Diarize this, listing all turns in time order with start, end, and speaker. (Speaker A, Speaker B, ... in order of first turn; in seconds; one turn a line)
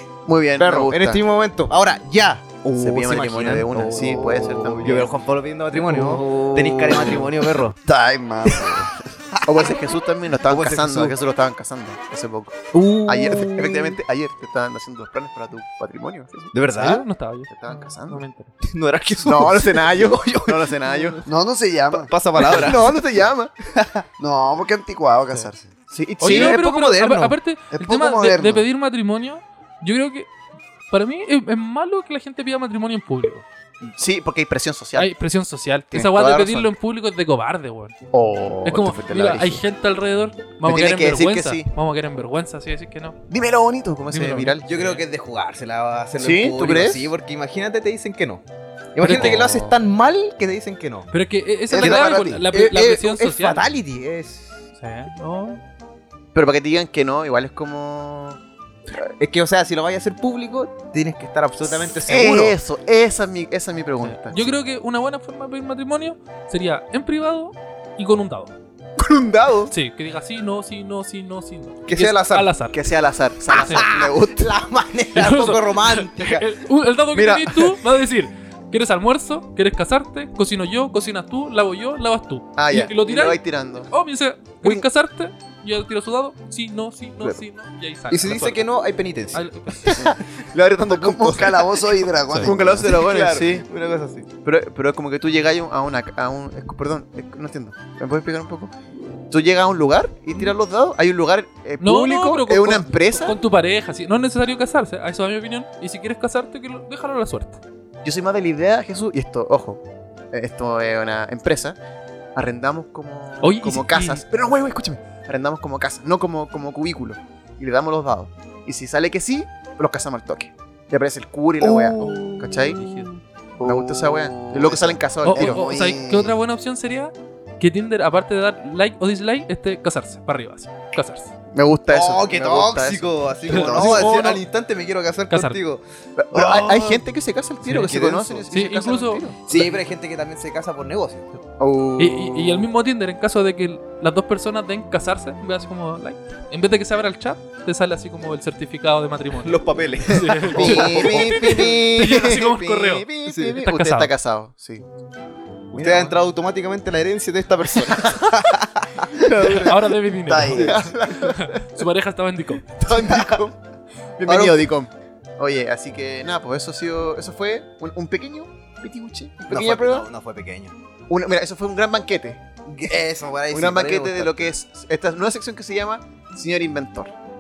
Speaker A: 0.2-1.2
Speaker B: 0.6-7.8
Speaker A: 2.7-5.1
Speaker C: 4.0-5.1
Speaker C: 5.7-9.0
Speaker A: 9.4-12.6
Speaker B: 10.4-11.2
Speaker B: 12.7-14.0
Speaker A: 13.1-16.6
Speaker B: 16.5-17.0
Speaker D: 16.7-18.5
Speaker A: 17.5-18.2
Speaker B: 18.6-21.3
Speaker A: 19.2-21.2
Speaker C: 21.2-22.1
Speaker B: 21.9-23.0
Speaker A: 22.4-23.5
Speaker B: 23.8-24.0
Speaker C: 24.2-25.7
Speaker A: 25.9-26.6
Speaker D: 26.2-30.3
Speaker B: 26.2-27.4
Speaker C: 27.7-28.6
Speaker D: 30.9-33.5
Speaker A: 34.0-35.1
Speaker D: 35.0-38.0
Speaker A: 35.9-36.7
Speaker A: 38.1-39.6
Speaker D: 38.6-43.2
Speaker A: 40.6-41.7
Speaker A: 43.3-44.6
Speaker D: 44.1-45.0
Speaker B: 44.7-48.4
Speaker A: 46.2-47.1
Speaker B: 49.0-51.1
Speaker D: 49.0-49.4
Speaker A: 49.1-49.8
Speaker D: 51.1-53.7
Speaker C: 51.7-52.5
Speaker B: 51.8-54.5
Speaker D: 54.8-55.6
Speaker A: 56.3-58.4
Speaker B: 59.2-62.6
Speaker A: 62.0-64.5
Speaker D: 64.0-68.5
Speaker A: 69.0-69.7
Speaker D: 69.7-72.8
Speaker B: 71.9-72.5
Speaker A: 72.7-74.5
Speaker B: 73.5-76.5
Speaker D: 73.5-73.9
Speaker D: 75.1-88.8
Speaker A: 77.1-77.6
Speaker A: 82.6-83.9
Speaker B: 88.1-89.5
Speaker D: 89.3-90.1
Speaker A: 89.9-93.7
Speaker C: 90.8-92.9
Speaker B: 92.8-94.3
Speaker A: 94.4-98.7
Speaker A: 99.3-103.4
Speaker D: 100.3-100.5
Speaker D: 101.8-107.6
Speaker A: 108.0-111.8
Speaker A: 112.4-122.8
Speaker D: 113.4-114.2
Speaker C: 121.6-123.0
Speaker D: 122.0-123.1
Speaker C: 123.6-126.4
Speaker A: 123.6-125.6
Speaker D: 125.2-131.3
Speaker A: 131.5-134.4
Speaker B: 131.9-137.1
Speaker D: 133.5-134.2
Speaker C: 133.6-134.2
Speaker D: 135.3-135.6
Speaker A: 136.2-139.7
Speaker D: 137.6-138.0
Speaker B: 137.8-138.6
Speaker D: 138.5-139.8
Speaker B: 139.5-141.3
Speaker A: 141.6-142.7
Speaker D: 142.0-154.1
Speaker B: 149.4-151.8
Speaker A: 150.5-154.8
Speaker B: 153.2-153.6
Speaker A: 155.7-156.2
Speaker B: 155.8-159.6
Speaker A: 157.9-158.3
Speaker A: 159.1-159.9
Speaker D: 159.4-162.7
Speaker C: 160.3-160.8
Speaker B: 160.4-160.7
Speaker A: 160.6-161.7
Speaker A: 162.7-163.6
Speaker A: 164.2-170.1
Speaker B: 164.3-164.7
Speaker B: 169.5-170.7
Speaker A: 171.1-172.4
Speaker B: 172.7-174.6
Speaker A: 173.5-177.1